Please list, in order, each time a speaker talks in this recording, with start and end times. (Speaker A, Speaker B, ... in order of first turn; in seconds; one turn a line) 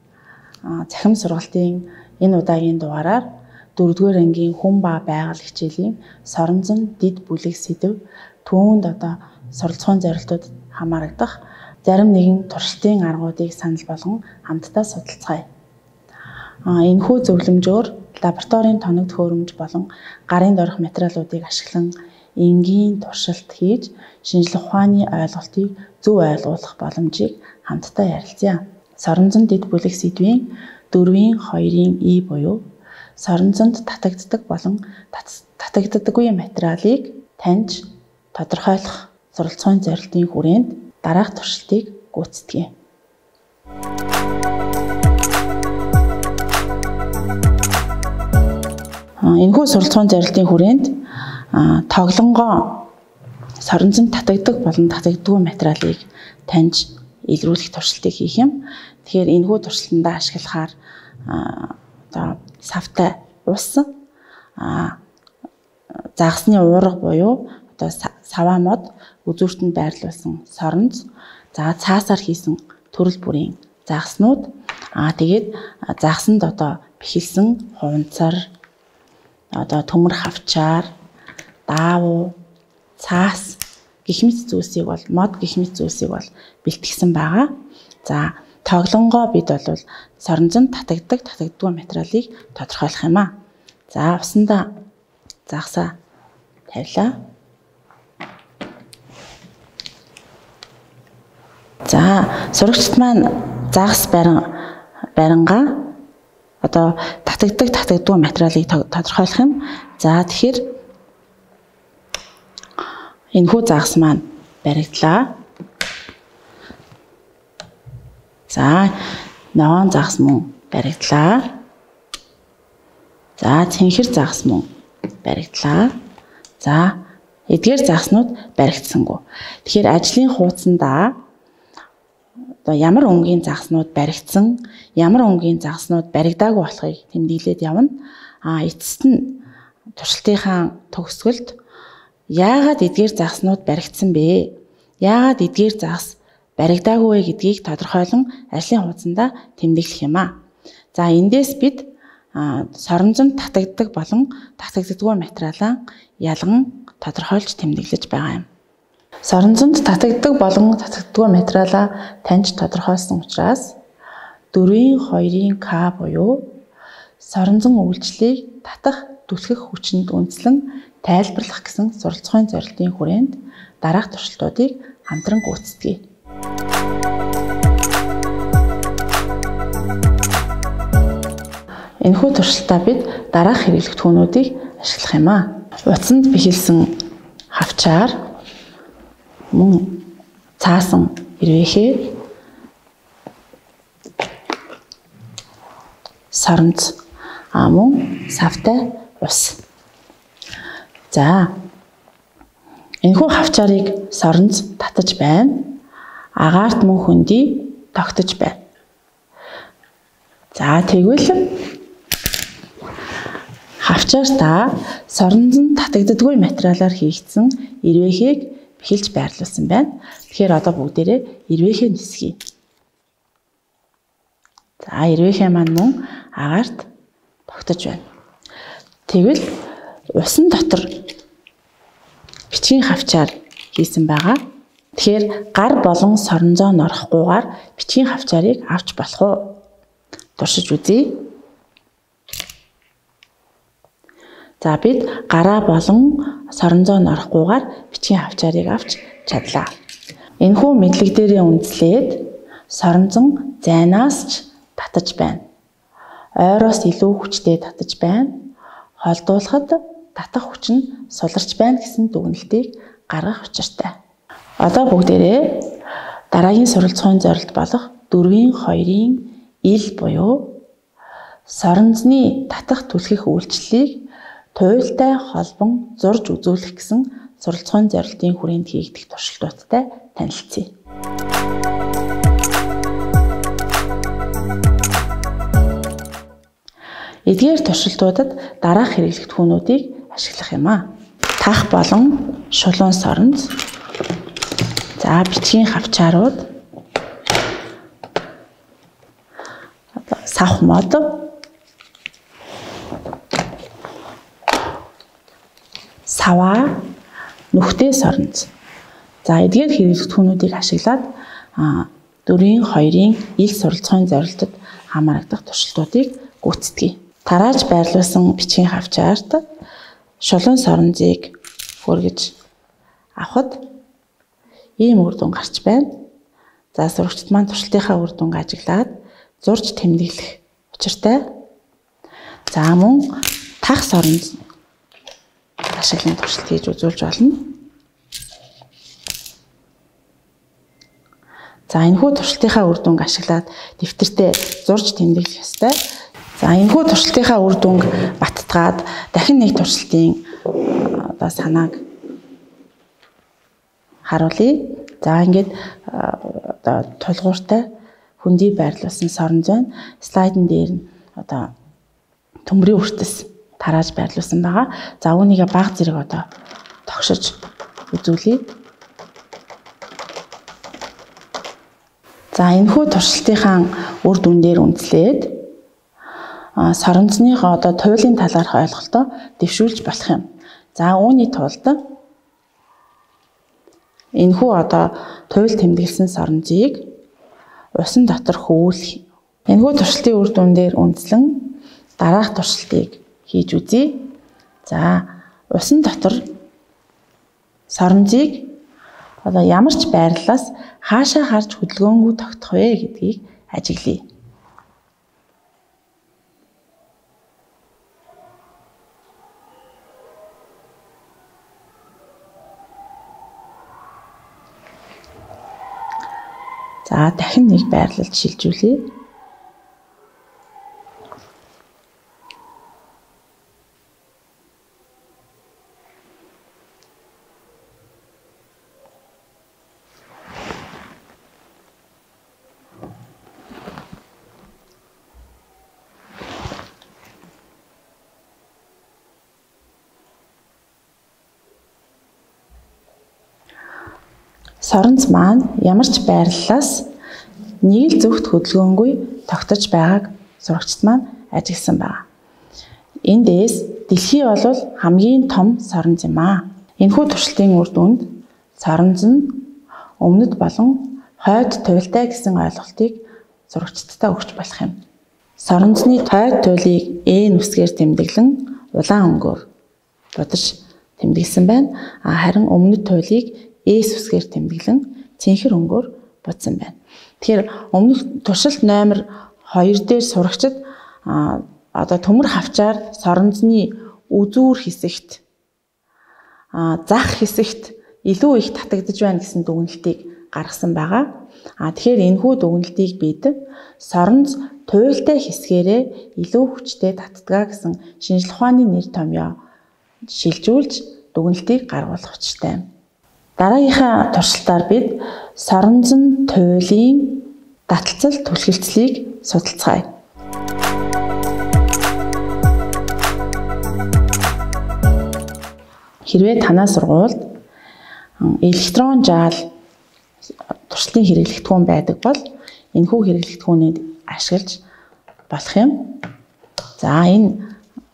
Speaker A: 0.7-15.5
Speaker A: 16.7-32.6
Speaker A: 33.2-42.7
Speaker A: 49.2-51.0
Speaker A: 51.5-52.9
Speaker A: 53.6-60.7
Speaker A: 61.3-63.9
Speaker A: 64.6-65.0
Speaker A: 66.2-78.5
Speaker A: 79.5-80.9
Speaker A: 81.7-82.4
Speaker A: 83.0-93.3
Speaker A: 93.9-94.7
Speaker A: 95.5-95.9
Speaker A: 96.7-97.2
Speaker A: 101.9-104.6
Speaker A: 105.2-105.8
Speaker A: 106.6-110.6
Speaker A: 113.3-115.3
Speaker A: 118.5-119.0
Speaker A: 119.5-121.5
Speaker A: 123.4-124.7
Speaker A: 125.2-125.9
Speaker A: 126.6-131.2
Speaker A: 132.6-139.4
Speaker A: 139.9-141.6
Speaker A: 142.3-150.3
Speaker A: 150.9-158.5
Speaker A: 159.2-163.8
Speaker A: 164.5-166.5
Speaker A: 167.2-176.0
Speaker A: 182.0-186.9
Speaker A: 187.5-188.2
Speaker A: 189.5-190.1
Speaker A: 190.6-192.2
Speaker A: 196.3-197.0
Speaker A: 197.5-199.6
Speaker A: 201.1-201.5
Speaker A: 203.0-205.8
Speaker A: 206.4-208.6
Speaker A: 210.5-211.5
Speaker A: 213.8-222.4
Speaker A: 224.8-226.8
Speaker A: 227.5-228.1
Speaker A: 229.1-229.5
Speaker A: 230.1-230.9
Speaker A: 232.5-234.4
Speaker A: 234.9-239.6
Speaker A: 240.4-241.2
Speaker A: 244.6-249.7
Speaker A: 250.4-255.4
Speaker A: 256.4-258.5
Speaker A: 259.0-263.9
Speaker A: 264.6-265.7
Speaker A: 266.3-270.6
Speaker A: 271.5-280.7
Speaker A: 287.2-293.5
Speaker A: 295.0-296.5
Speaker A: 300.1-301.3
Speaker A: 306.1-306.8
Speaker A: 307.5-308.5
Speaker A: 309.2-319.4
Speaker A: 320.2-322.4
Speaker A: 323.2-323.6
Speaker A: 324.8-325.9
Speaker A: 326.8-331.3
Speaker A: 332.5-334.4
Speaker A: 335.7-337.5
Speaker A: 341.7-345.8
Speaker A: 346.4-350.2
Speaker A: 350.8-351.8
Speaker A: 354.1-357.7
Speaker A: 358.2-361.5
Speaker A: 362.4-366.3
Speaker A: 366.9-367.4
Speaker A: 367.9-368.5
Speaker A: 372.3-375.4
Speaker A: 376.6-381.8
Speaker A: 384.2-386.9
Speaker A: 387.8-394.1
Speaker A: 394.6-396.2
Speaker A: 397.7-398.5
Speaker A: 399.2-404.1
Speaker A: 416.9-418.9
Speaker A: 444.6-446.9
Speaker A: 447.6-452.0
Speaker A: 453.1-464.8
Speaker A: 465.4-469.5
Speaker A: 470.1-485.2
Speaker A: 486.5-499.4
Speaker A: 500.1-502.7
Speaker A: 503.4-509.9
Speaker A: 516.1-517.3
Speaker A: 518.2-519.5
Speaker A: 520.7-524.6
Speaker A: 525.3-526.0
Speaker A: 526.8-527.5